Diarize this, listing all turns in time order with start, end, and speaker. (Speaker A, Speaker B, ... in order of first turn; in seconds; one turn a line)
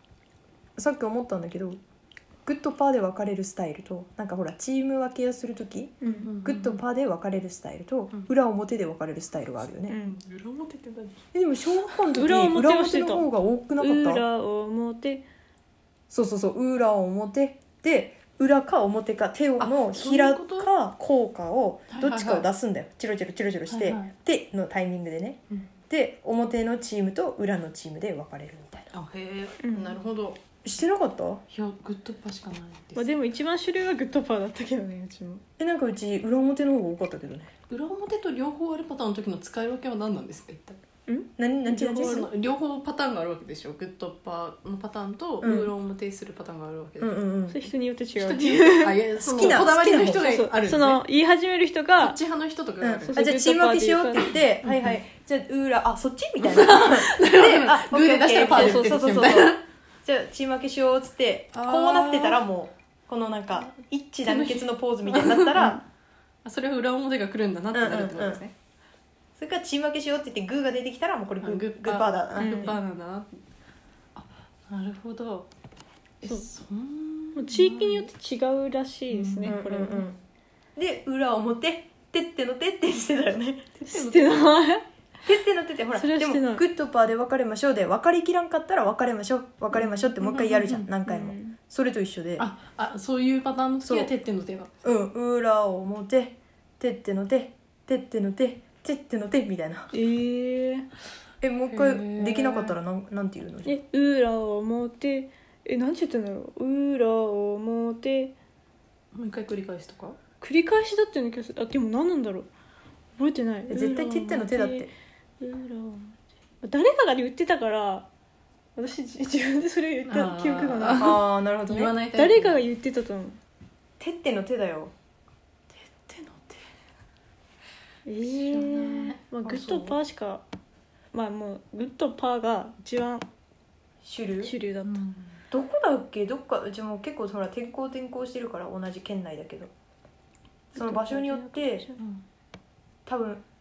Speaker A: 0.8-1.8
Speaker A: 2.4-9.9
Speaker B: 6.0-6.3
Speaker C: 6.0-6.8
Speaker B: 9.9-10.1
Speaker C: 9.9-11.2
Speaker A: 11.3-14.2
Speaker B: 12.1-15.2
Speaker A: 16.1-28.9
Speaker C: 19.6-20.7
Speaker C: 21.9-22.5
Speaker C: 23.7-24.1
Speaker C: 28.9-30.4
Speaker B: 29.6-30.0
Speaker A: 30.6-31.4
Speaker C: 31.5-33.1
Speaker B: 33.0-35.4
Speaker A: 35.6-37.5
Speaker C: 37.7-40.8
Speaker B: 41.1-42.2
Speaker A: 41.4-42.3
Speaker C: 41.9-47.1
Speaker A: 45.4-45.7
Speaker A: 47.0-47.6
Speaker B: 47.5-49.6
Speaker C: 48.1-51.0
Speaker A: 49.2-50.3
Speaker B: 50.2-52.2
Speaker C: 52.0-53.2
Speaker A: 52.8-65.8
Speaker B: 53.0-54.3
Speaker C: 54.6-55.0
Speaker C: 56.4-59.6
Speaker B: 58.5-59.1
Speaker C: 61.5-62.4
Speaker C: 64.2-65.8
Speaker B: 65.6-65.8
Speaker C: 66.4-68.5
Speaker A: 67.7-68.4
Speaker A: 69.4-72.7
Speaker C: 71.4-73.3
Speaker B: 72.4-72.8
Speaker C: 74.2-75.5
Speaker C: 76.2-78.1
Speaker B: 77.3-80.0
Speaker C: 79.1-79.6
Speaker A: 79.4-80.2
Speaker A: 80.8-83.8
Speaker C: 83.8-84.5
Speaker B: 83.9-84.8
Speaker A: 85.2-92.5
Speaker B: 85.9-86.6
Speaker B: 89.8-91.6
Speaker C: 90.3-90.9
Speaker C: 92.4-94.8
Speaker A: 93.8-94.1
Speaker A: 94.8-99.9
Speaker B: 99.9-100.9
Speaker A: 101.4-103.8
Speaker C: 101.7-102.8
Speaker B: 103.6-108.3
Speaker C: 109.1-110.2
Speaker B: 110.4-112.5
Speaker B: 113.2-114.9
Speaker A: 113.7-114.9
Speaker B: 115.4-118.1
Speaker B: 118.8-121.2
Speaker C: 120.1-122.6
Speaker A: 120.9-121.9
Speaker B: 122.1-123.4
Speaker A: 124.0-124.9
Speaker C: 125.8-126.6
Speaker B: 128.1-130.4
Speaker C: 128.2-130.0
Speaker B: 131.1-133.3
Speaker A: 134.0-134.5
Speaker B: 134.4-135.0
Speaker C: 134.8-135.4
Speaker A: 135.5-139.7
Speaker B: 140.7-142.0
Speaker A: 140.8-141.8
Speaker A: 143.1-143.4